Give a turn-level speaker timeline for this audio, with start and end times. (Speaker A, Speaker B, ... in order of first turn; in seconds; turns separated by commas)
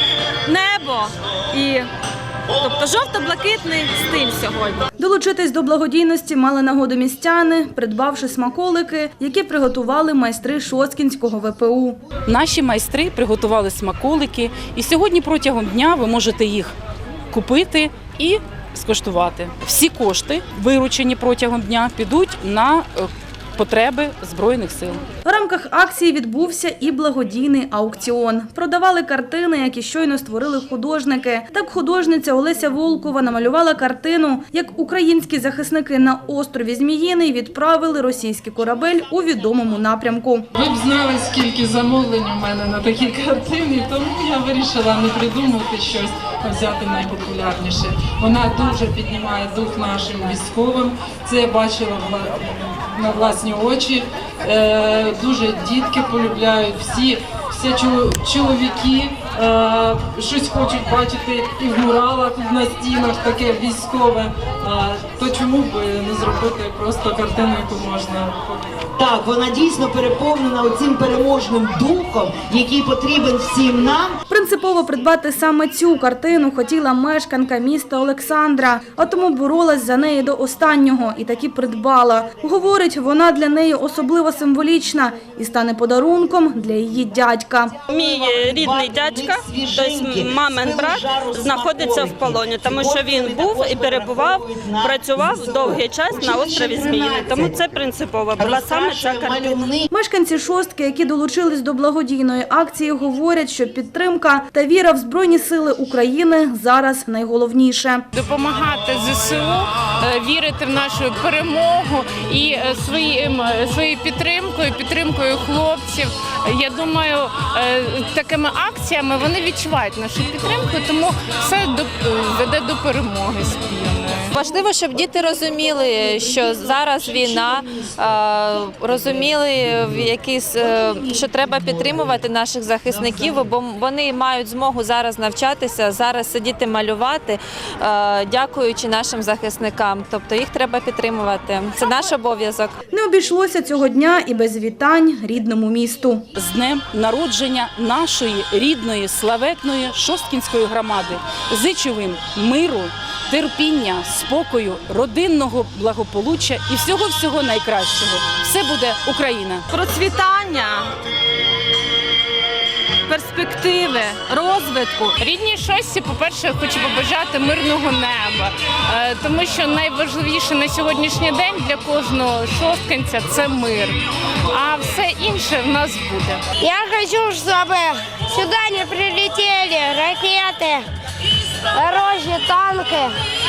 Speaker A: 0.5-1.9, Speaker A: 2.6-4.8, Speaker B: 5.0-12.0, Speaker C: 12.3-16.7, Speaker C: 17.3-25.0, Speaker B: 25.2-40.5, Speaker D: 40.5-68.7, Speaker E: 69.0-74.2, Speaker B: 74.3-87.8, Speaker F: 87.9-99.7, Speaker E: 87.9-97.8, Speaker E: 98.4-99.9, Speaker B: 99.9-108.0, Speaker G: 108.1-124.3, Speaker H: 124.3-142.7, Speaker B: 142.9-146.2, Speaker C: 146.3-159.7, Speaker A: 159.7-160.9, Speaker A: 163.1-165.1, Speaker G: 165.2-174.0, Speaker G: 174.5-176.4, Speaker I: 176.6-180.9, Speaker I: 181.7-183.1